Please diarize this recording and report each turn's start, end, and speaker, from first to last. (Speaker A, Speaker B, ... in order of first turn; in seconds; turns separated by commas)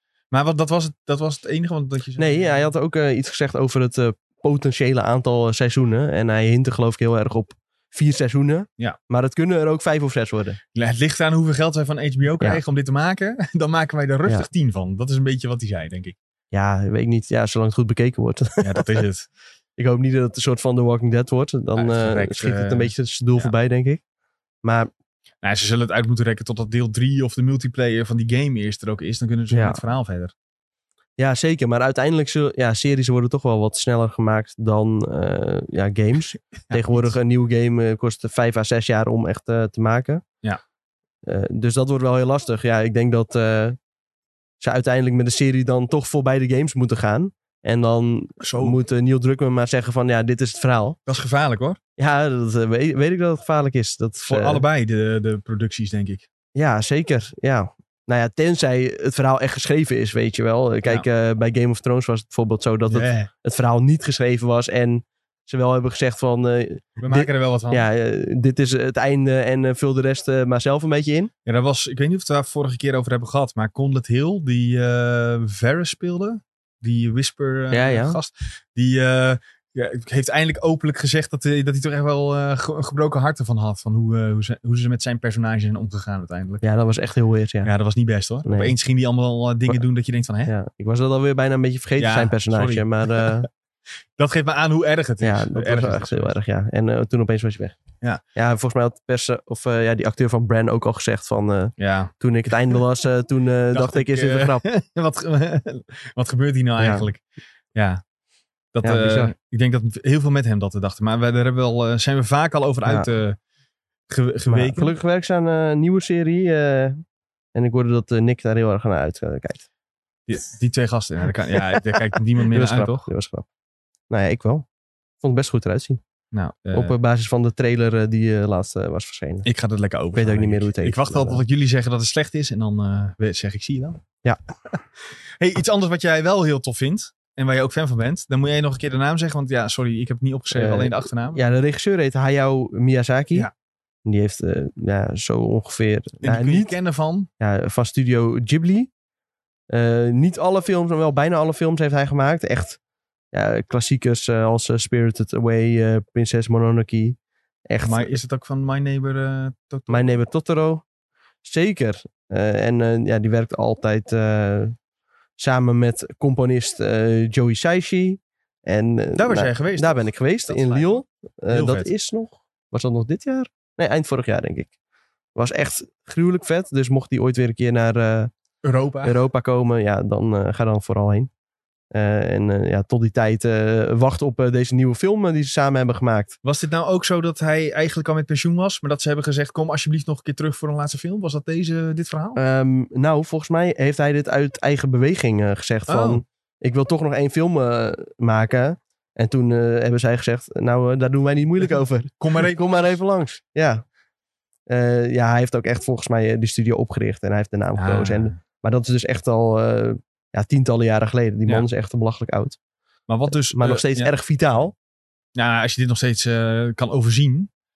Speaker A: 0.3-2.7, Speaker B: 2.2-10.6, Speaker A: 10.7-16.2, Speaker B: 16.5-19.0, Speaker A: 18.6-19.3, Speaker B: 19.8-24.0, Speaker A: 21.8-23.5, Speaker B: 24.6-24.9, Speaker A: 25.4-30.3, Speaker B: 29.5-29.8, Speaker B: 31.2-40.2, Speaker A: 36.7-37.1, Speaker B: 41.2-43.8, Speaker B: 44.6-51.0, Speaker A: 48.4-48.8, Speaker A: 51.1-51.8, Speaker B: 52.0-54.6, Speaker A: 54.2-56.3, Speaker B: 56.5-71.3, Speaker A: 62.9-63.3, Speaker A: 67.0-67.9, Speaker A: 71.5-86.6, Speaker B: 77.7-78.2, Speaker B: 86.6-87.7, Speaker A: 87.6-90.5, Speaker B: 88.5-88.8, Speaker B: 90.5-93.5, Speaker A: 92.0-93.5, Speaker A: 94.2-96.4, Speaker B: 95.2-97.8, Speaker B: 98.3-104.6, Speaker A: 101.8-102.1, Speaker A: 103.7-107.2, Speaker B: 106.8-107.1, Speaker A: 107.8-108.0, Speaker A: 108.7-113.4, Speaker B: 108.8-109.3, Speaker A: 114.1-115.0, Speaker B: 114.5-117.0, Speaker B: 117.5-119.7, Speaker A: 120.3-123.1, Speaker B: 122.5-123.5, Speaker B: 124.1-124.7, Speaker B: 125.2-126.0, Speaker A: 126.3-127.0, Speaker B: 126.7-129.5, Speaker A: 129.4-134.0, Speaker B: 130.1-131.4, Speaker A: 135.4-141.5, Speaker B: 140.5-143.5, Speaker B: 144.1-146.7, Speaker A: 146.2-147.3, Speaker B: 147.4-148.9, Speaker B: 149.7-152.8, Speaker B: 153.3-157.2, Speaker B: 157.7-158.1, Speaker A: 157.8-160.2, Speaker B: 159.9-160.8, Speaker B: 161.4-164.8, Speaker B: 165.4-174.7, Speaker A: 169.2-171.9, Speaker B: 175.3-178.3, Speaker A: 178.6-179.2, Speaker B: 179.0-181.3, Speaker B: 181.9-186.4, Speaker A: 186.4-192.4, Speaker B: 192.4-203.8, Speaker A: 195.9-196.2, Speaker A: 202.2-202.9, Speaker B: 204.7-212.6, Speaker A: 207.8-208.4, Speaker A: 213.1-214.1, Speaker B: 213.5-214.8, Speaker A: 215.4-217.5